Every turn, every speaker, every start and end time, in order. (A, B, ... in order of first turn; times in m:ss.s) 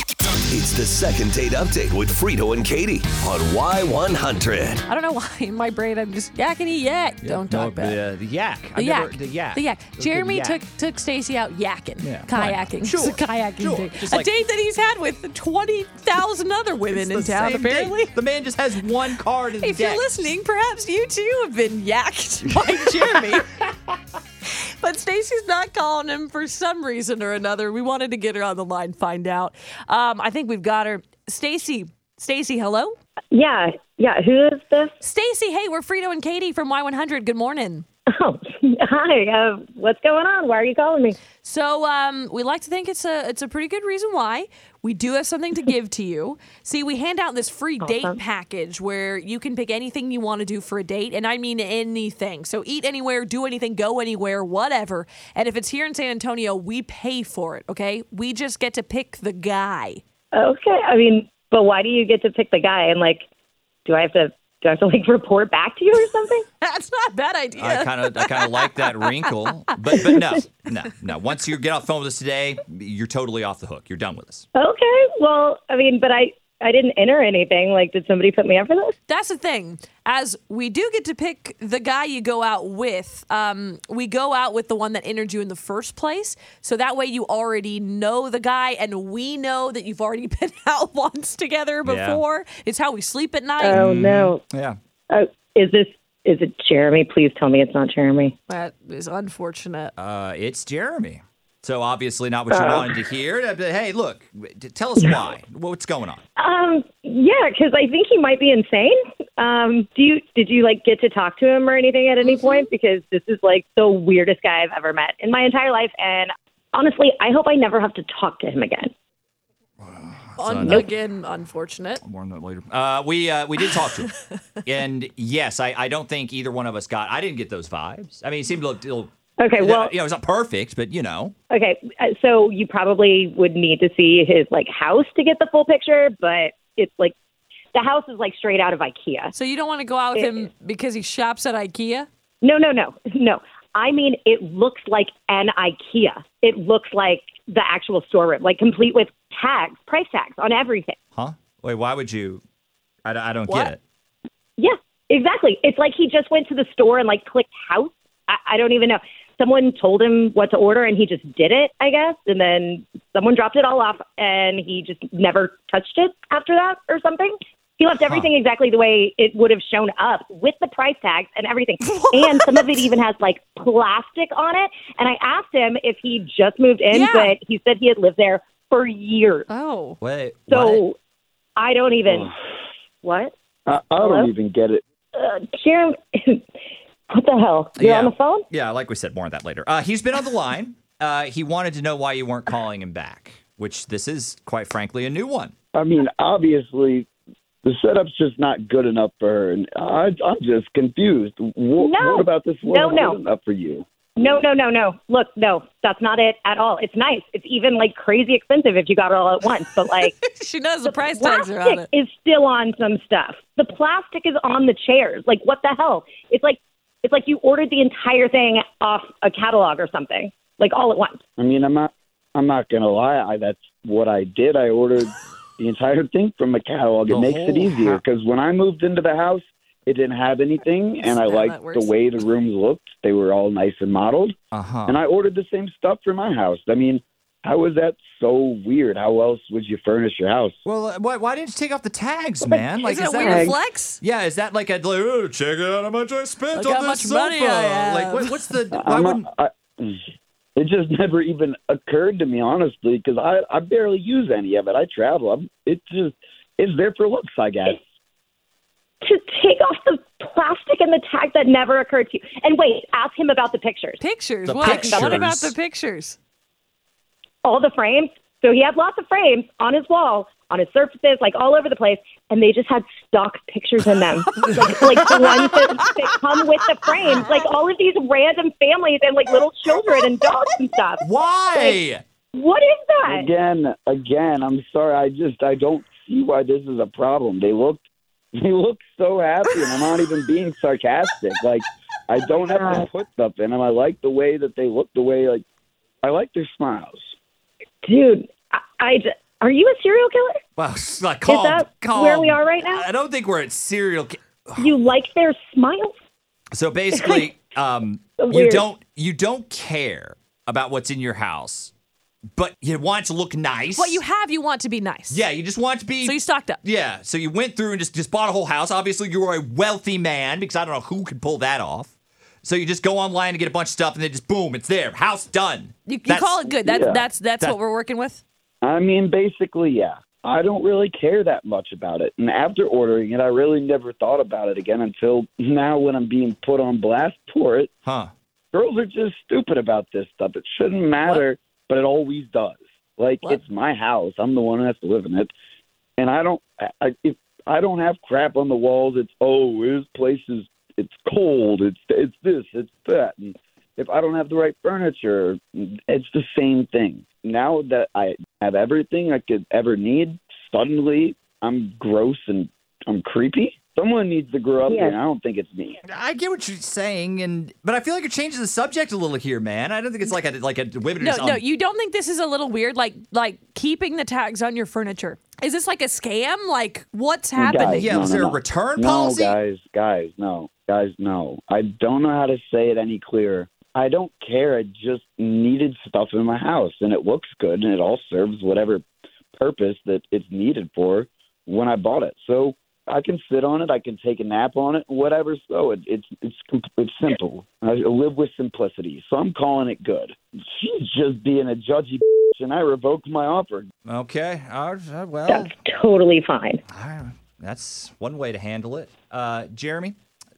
0:00.5-0:04.8 A
0:04.9-0:08.0 B
0:07.2-0:10.6 C
0:08.8-0:18.1 B
0:12.0-0:14.3 C
0:16.9-0:20.0 C
0:19.6-0:23.4 B
0:22.5-0:23.4 C
0:24.5-0:32.9 B
0:33.3-0:34.9 D
0:35.0-0:37.8 B
0:38.1-0:41.2 D
0:41.4-1:00.0 B
0:47.8-0:48.1 D
1:00.3-1:03.2 D
1:03.8-1:06.4 D
1:06.6-1:10.1 B
1:07.6-1:14.4 C
1:14.5-1:18.9 D
1:19.1-1:33.8 B
1:31.8-1:32.2 C
1:33.6-1:34.4 D
1:33.7-1:34.8 C
1:35.1-1:38.3 D
1:38.5-1:39.9 B
1:40.0-1:46.2 C
1:42.5-1:42.9 D
1:46.4-1:58.9 D
1:52.2-1:52.7 B
1:59.8-2:00.9 C
2:00.4-2:02.0 B
2:02.0-2:04.1 C
2:03.6-2:04.3 B
2:04.6-2:11.3 C
2:09.4-2:09.9 D
2:11.5-2:17.1 D
2:17.7-2:19.3 D
2:19.3-2:22.1 B
2:22.4-2:31.0 D
2:31.1-2:32.4 C
2:33.0-2:33.8 C
2:33.5-2:33.7 B
2:34.6-2:59.5 D
2:48.0-2:48.3 C
2:51.8-2:52.8 B
2:56.9-2:57.3 B
2:59.5-3:00.0 B
3:00.0-3:00.8 C
3:00.5-3:01.0 D
3:01.6-3:02.3 D
3:02.0-3:02.3 E
3:03.0-3:03.3 D
3:03.7-3:04.8 E
3:04.0-3:04.3 D
3:05.1-3:06.4 D
3:07.1-3:08.4 D
3:07.8-3:15.5 C
3:15.7-3:17.1 E
3:17.6-3:23.8 E
3:21.8-3:23.2 D
3:24.2-3:30.1 D
3:29.9-3:31.9 B
3:30.8-3:41.2 D
3:41.4-3:54.3 E
3:47.1-3:48.0 C
3:51.0-3:51.9 B
3:54.5-3:55.0 C
3:54.8-4:00.6 E
4:00.6-4:09.3 C
4:02.8-4:04.0 B
4:03.2-4:03.5 D
4:06.5-4:08.4 B
4:08.7-4:10.0 E
4:10.6-4:17.8 E
4:19.0-4:24.0 D
4:24.0-4:26.2 B
4:24.4-4:25.5 C
4:24.6-4:25.3 D
4:27.4-4:41.0 D
4:34.5-4:35.1 B
4:41.0-4:42.0 C
4:41.5-4:41.8 D
4:42.3-4:43.3 D
4:43.1-4:47.8 E
4:48.4-4:55.4 E
4:52.3-4:52.8 D
4:56.0-4:57.1 E
4:57.8-5:00.4 D
5:00.6-5:04.7 C
5:01.3-5:02.8 D
5:04.6-5:05.9 D
5:06.5-5:11.7 C
5:06.9-5:07.3 D
5:08.2-5:08.6 D
5:12.3-5:14.0 C
5:13.8-5:15.2 B
5:15.1-5:26.5 C
5:16.0-5:16.6 B
5:25.9-5:28.2 B
5:26.6-5:27.0 E
5:28.6-5:37.7 E
5:37.8-5:38.1 C
5:38.5-5:45.3 E
5:46.0-6:05.8 E
6:04.7-6:05.0 D
6:05.9-6:11.4 C
6:11.0-6:17.9 B
6:17.4-6:28.8 E
6:17.6-6:19.4 C
6:29.4-6:43.7 E
6:43.8-6:45.5 C
6:45.3-6:46.6 D
6:46.7-6:50.0 C